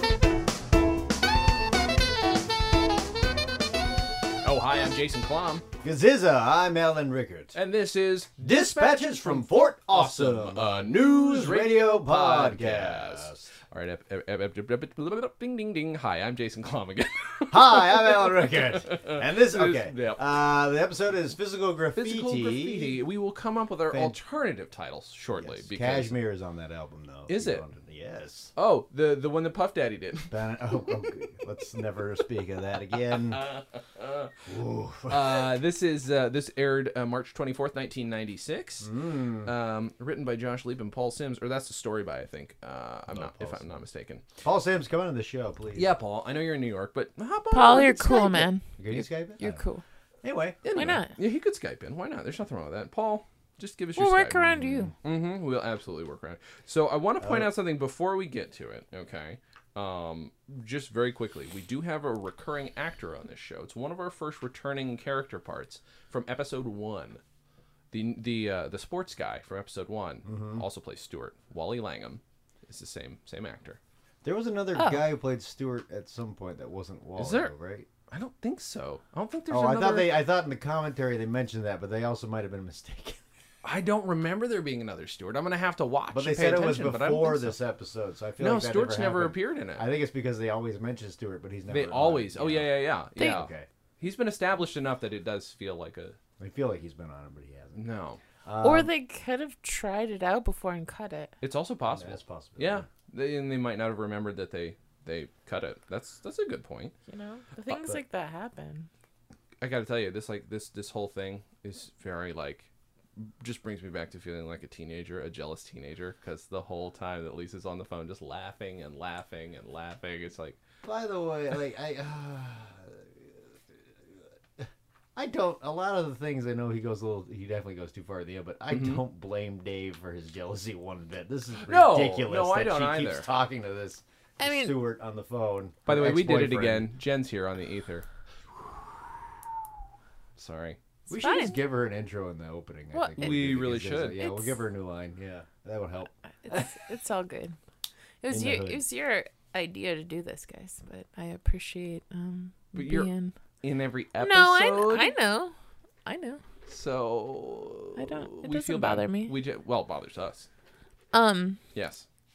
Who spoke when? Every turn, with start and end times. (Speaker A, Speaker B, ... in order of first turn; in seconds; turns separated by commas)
Speaker A: 4.4-5.6, Speaker B: 5.8-7.5, Speaker A: 7.5-20.2, Speaker B: 8.4-13.4, Speaker B: 17.5-23.0, Speaker A: 21.9-26.1, Speaker B: 23.9-24.2, Speaker B: 25.4-28.5, Speaker A: 27.3-27.6, Speaker A: 28.6-30.3, Speaker B: 30.3-33.4, Speaker A: 33.1-34.3, Speaker B: 34.4-35.5, Speaker A: 35.1-44.2, Speaker B: 38.8-39.5, Speaker B: 43.1-43.7, Speaker B: 44.4-45.9, Speaker A: 45.7-48.5, Speaker C: 47.5-49.8, Speaker B: 48.8-49.6, Speaker B: 50.2-51.0, Speaker A: 50.6-67.2, Speaker C: 50.7-51.1, Speaker C: 54.0-54.9, Speaker B: 54.5-54.9, Speaker B: 57.2-57.5, Speaker A: 67.9-73.8, Speaker B: 70.2-70.6, Speaker B: 74.2-77.9, Speaker C: 74.8-75.0, Speaker A: 77.2-77.5, Speaker A: 78.1-80.2, Speaker B: 79.5-83.2, Speaker A: 83.6-87.6, Speaker B: 86.1-93.7, Speaker A: 88.4-89.9, Speaker A: 91.7-96.2, Speaker C: 93.2-93.4, Speaker B: 96.4-97.8, Speaker A: 97.7-98.2, Speaker B: 98.4-98.9, Speaker C: 98.6-101.3, Speaker A: 101.4-106.9, Speaker B: 101.9-102.9, Speaker C: 107.1-108.9, Speaker B: 107.7-108.0, Speaker A: 109.6-120.6, Speaker B: 120.8-136.9, Speaker A: 128.7-129.0, Speaker A: 131.6-133.3, Speaker C: 134.4-134.8, Speaker A: 135.8-138.1, Speaker A: 140.3-140.8, Speaker C: 141.1-141.7, Speaker B: 141.1-146.7, Speaker C: 142.9-143.5, Speaker A: 143.2-144.2, Speaker C: 144.1-144.6, Speaker C: 146.4-147.6, Speaker C: 148.2-153.3, Speaker B: 148.3-148.8, Speaker A: 152.8-153.1, Speaker A: 153.6-155.1, Speaker C: 154.2-156.4, Speaker A: 156.7-160.5, Speaker C: 157.9-159.3, Speaker C: 161.1-161.6, Speaker A: 161.7-162.1